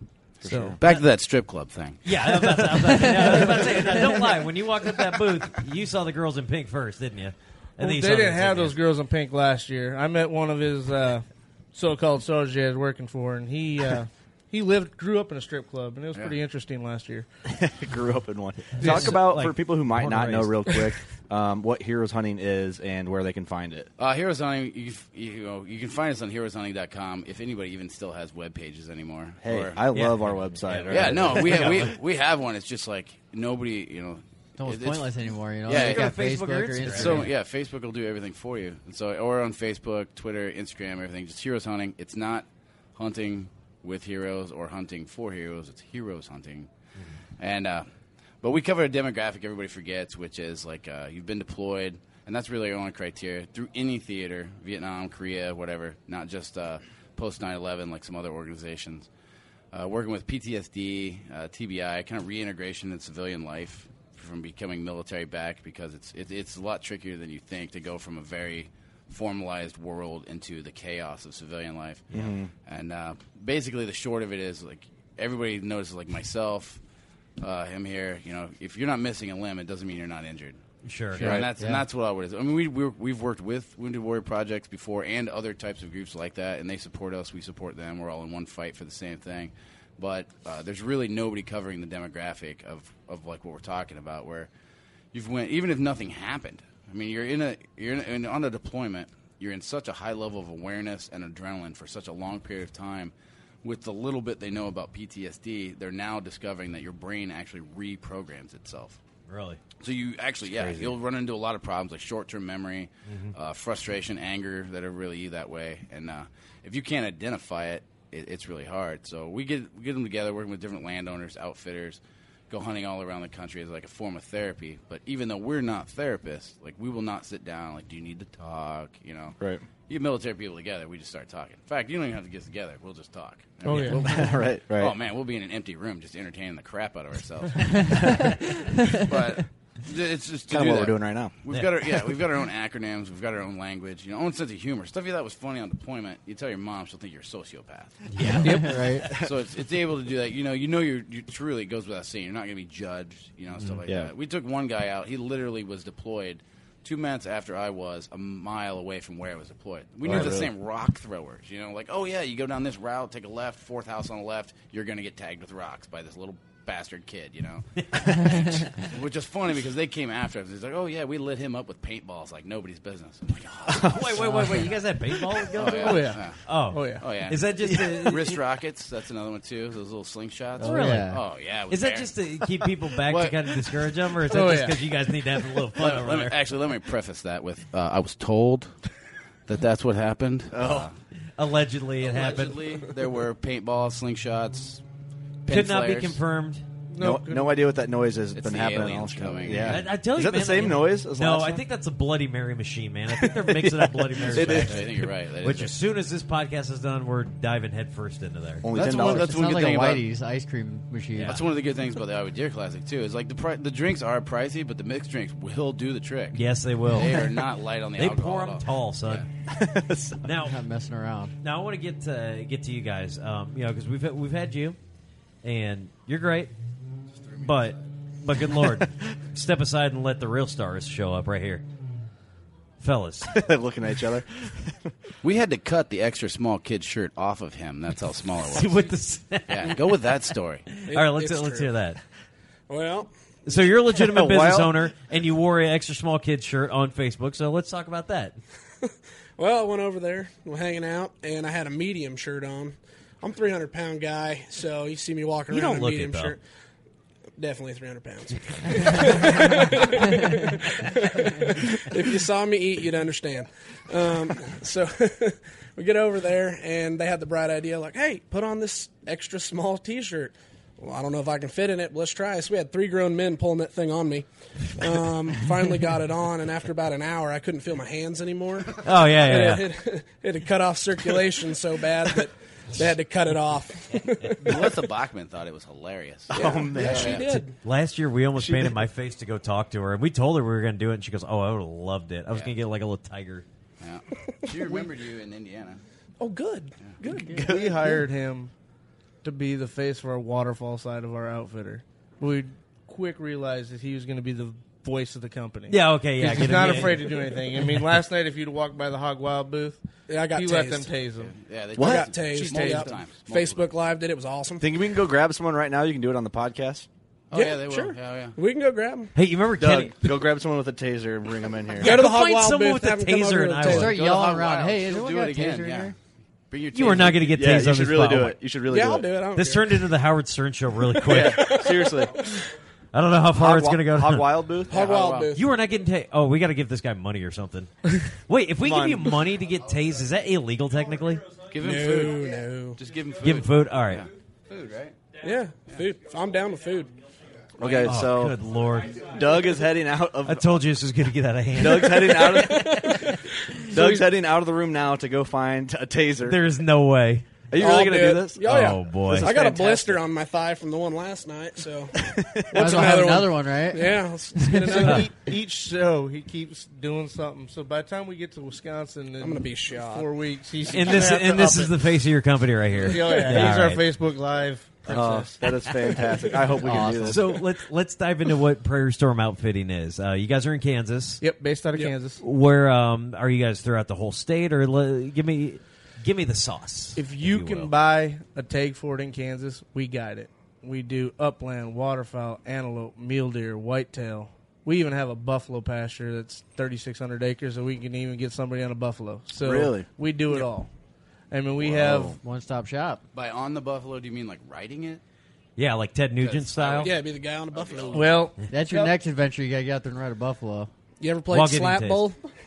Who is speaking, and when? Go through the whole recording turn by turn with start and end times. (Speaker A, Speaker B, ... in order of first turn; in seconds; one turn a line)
Speaker A: 0.4-0.8
Speaker B: 0.5-0.7
Speaker C: 0.8-2.3
Speaker D: 2.0-8.8
Speaker B: 7.8-17.3
Speaker A: 17.5-23.9
Speaker D: 18.8-20.8
Speaker B: 18.8-19.1
Speaker C: 24.0-29.8
Speaker A: 29.4-31.9
Speaker D: 29.9-31.9
Speaker C: 30.9-36.2
Speaker E: 34.6-37.3
Speaker D: 35.7-37.3
Speaker C: 36.8-46.7
Speaker C: 47.4-47.9
Speaker C: 48.4-59.1
Speaker C: 59.7-76.8
Speaker A: 72.1-72.5
Speaker C: 77.4-80.6
Speaker D: 80.8-81.4
Speaker C: 81.2-94.5
Speaker A: 81.2-81.5
Speaker E: 81.5-81.8
Speaker C: 95.1-109.0
Speaker D: 109.3-109.6
Speaker C: 109.8-129.4
Speaker A: 110.5-110.9
Speaker D: 113.1-113.3
Speaker C: 129.9-134.2
Speaker B: 133.6-134.0
Speaker A: 133.9-135.0
Speaker C: 134.7-138.4
Speaker C: 138.9-174.7
Speaker A: 140.5-141.3
Speaker E: 148.2-149.2
Speaker D: 148.2-148.8
Speaker A: 153.9-154.1
Speaker A: 160.1-160.5
Speaker A: 173.7-174.3
Speaker D: 173.9-178.4
Speaker E: 174.2-174.6
Speaker C: 175.5-176.4
Speaker B: 175.7-177.0
Speaker C: 177.0-183.8
Speaker E: 180.6-181.2
Speaker D: 180.6-181.1
Speaker D: 181.7-186.4
Speaker B: 184.3-184.8
Speaker C: 185.7-188.8
Speaker C: 189.5-190.9
Speaker A: 190.5-190.9
Speaker D: 191.4-192.7
Speaker C: 192.0-194.8
Speaker C: 195.5-196.2
Speaker D: 195.5-196.7
Speaker B: 196.9-197.5
Speaker A: 197.0-201.6
Speaker C: 198.3-199.9
Speaker D: 199.5-208.7
Speaker A: 203.2-205.0
Speaker C: 204.3-205.7
Speaker A: 208.6-209.7
Speaker E: 208.7-211.4
Speaker C: 208.8-210.0
Speaker C: 211.2-219.3
Speaker D: 216.3-217.4
Speaker D: 218.0-219.3
Speaker A: 219.5-220.2
Speaker D: 220.2-220.6
Speaker E: 220.3-221.3
Speaker D: 221.4-224.8
Speaker D: 225.4-226.5
Speaker D: 227.4-231.6
Speaker D: 232.8-233.4
Speaker A: 233.3-234.9
Speaker C: 235.2-238.9
Speaker D: 238.5-240.0
Speaker C: 239.5-240.7
Speaker D: 240.7-242.0
Speaker F: 240.9-241.7
Speaker F: 242.7-243.6
Speaker D: 243.5-248.4
Speaker A: 244.0-244.9
Speaker F: 249.4-256.4
Speaker D: 255.5-256.4
Speaker F: 257.4-284.8
Speaker D: 258.7-259.2
Speaker D: 278.8-279.7
Speaker C: 284.4-287.3
Speaker A: 286.3-287.3
Speaker F: 286.3-287.6
Speaker D: 287.6-293.4
Speaker A: 288.4-288.8
Speaker C: 293.8-295.8
Speaker F: 294.5-294.9
Speaker F: 296.2-297.7
Speaker A: 297.1-297.8
Speaker B: 297.3-298.5
Speaker B: 299.2-311.3
Speaker D: 305.7-307.3
Speaker F: 310.1-310.9
Speaker C: 311.2-313.7
Speaker A: 311.8-312.1
Speaker F: 311.8-314.7
Speaker B: 312.3-312.9
Speaker A: 314.6-316.9
Speaker C: 317.3-318.4
Speaker F: 317.3-319.1
Speaker D: 319.1-320.0
Speaker A: 319.6-322.0
Speaker F: 321.8-324.0
Speaker D: 321.8-323.9
Speaker E: 323.6-325.9
Speaker C: 323.9-325.9
Speaker C: 326.5-327.5
Speaker D: 326.7-328.4
Speaker A: 327.3-329.1
Speaker F: 328.7-330.0
Speaker D: 329.4-331.8
Speaker F: 331.0-332.5
Speaker A: 331.1-332.3
Speaker D: 332.9-334.5
Speaker A: 333.3-335.0
Speaker F: 334.7-335.5
Speaker C: 334.7-335.3
Speaker D: 335.3-341.3
Speaker A: 338.6-339.2
Speaker C: 341.5-344.9
Speaker F: 341.6-342.8
Speaker D: 343.2-344.1
Speaker F: 345.2-346.9
Speaker A: 347.6-348.4
Speaker D: 347.8-349.0
Speaker A: 349.0-350.6
Speaker D: 350.2-353.1
Speaker A: 351.5-353.0
Speaker F: 351.9-354.1
Speaker A: 353.7-356.4
Speaker D: 356.2-357.3
Speaker A: 357.5-359.3
Speaker F: 357.6-365.1
Speaker D: 358.4-359.9
Speaker A: 362.0-362.9
Speaker E: 362.5-364.7
Speaker B: 364.5-371.8
Speaker F: 369.2-370.1
Speaker D: 370.7-373.9
Speaker B: 372.8-375.4
Speaker A: 374.9-377.4
Speaker E: 376.6-377.4
Speaker D: 377.1-381.2
Speaker B: 381.2-382.2
Speaker D: 382.2-387.7
Speaker B: 386.9-400.7
Speaker A: 399.4-399.9
Speaker B: 401.3-402.2
Speaker A: 401.6-402.2
Speaker E: 401.9-403.0
Speaker C: 403.1-405.0
Speaker D: 405.6-406.9
Speaker C: 406.2-408.1
Speaker F: 406.8-408.3
Speaker B: 407.9-409.0
Speaker E: 408.5-410.7
Speaker F: 411.0-412.2
Speaker D: 411.3-412.1